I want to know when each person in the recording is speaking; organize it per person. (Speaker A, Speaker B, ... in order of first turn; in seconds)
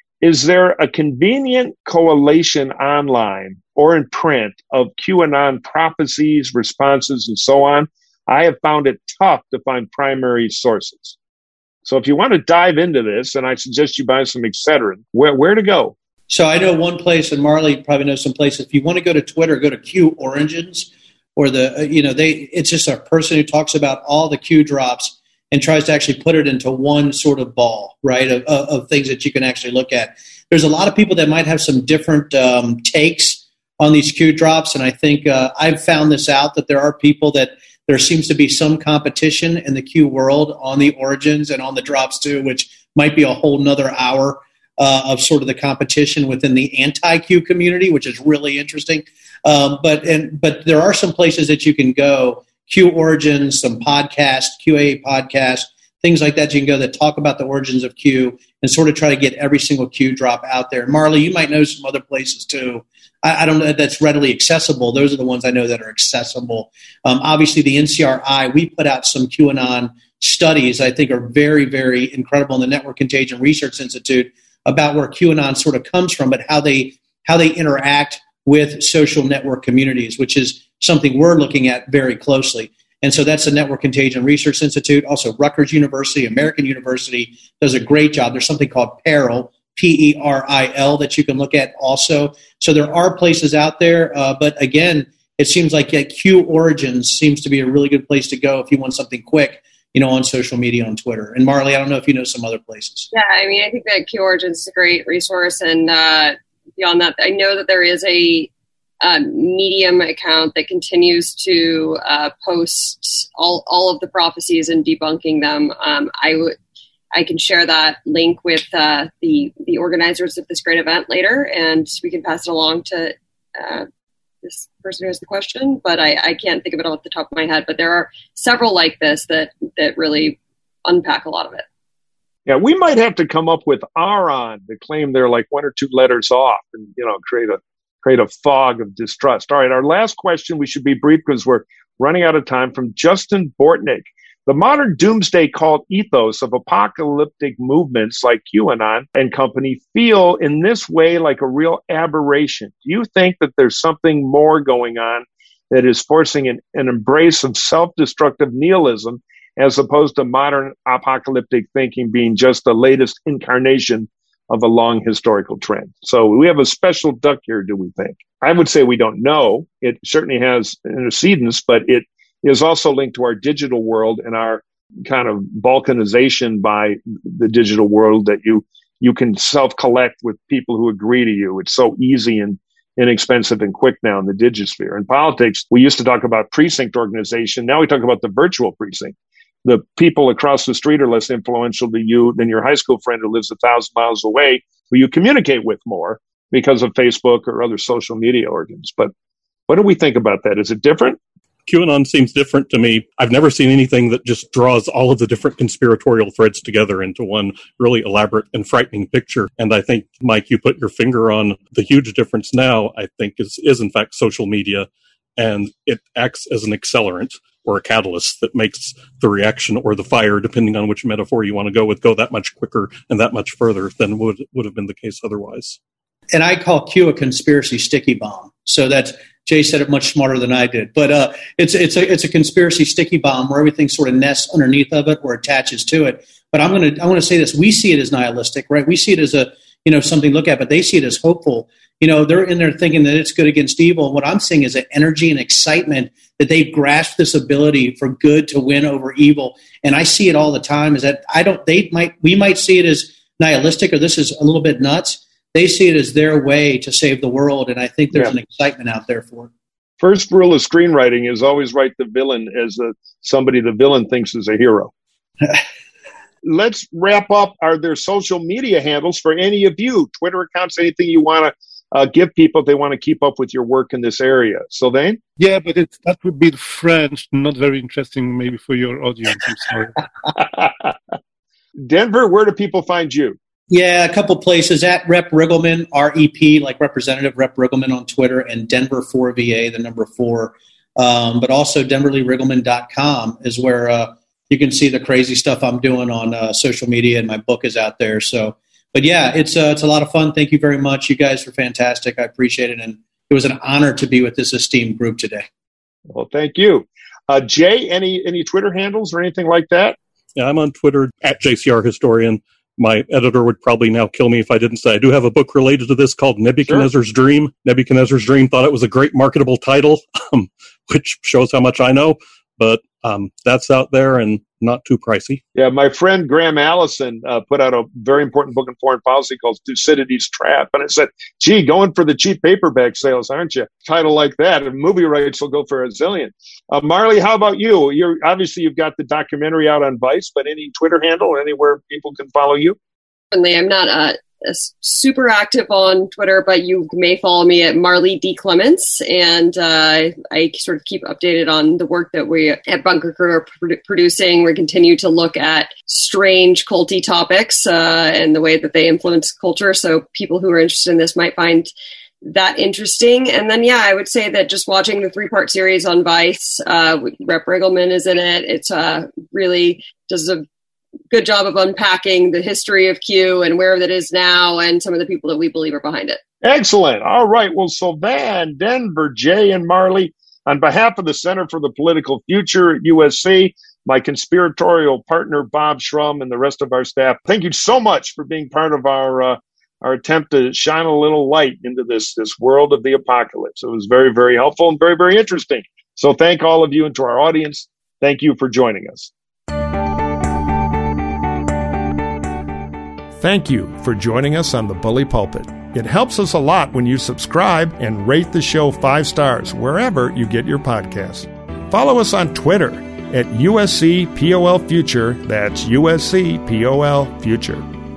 Speaker A: 0.2-11.2, 11.8-15.9, 132.5-199.1, 199.7-201.2, 260.0-264.9, 266.4-275.2, 280.4-280.9, 281.9-283.4, 306.1-310.0, 325.6-342.8, 376.4-399.1
Speaker B: 16.3-103.1, 226.3-259.5, 283.7-305.4
Speaker C: 103.1-108.5, 109.0-116.6, 117.1-123.9, 124.4-131.6, 343.3-361.7, 362.2-370.4, 371.1-376.2
Speaker D: 201.7-225.8, 310.4-325.4
Speaker E: 275.4-279.9
Speaker F: 403.2-417.7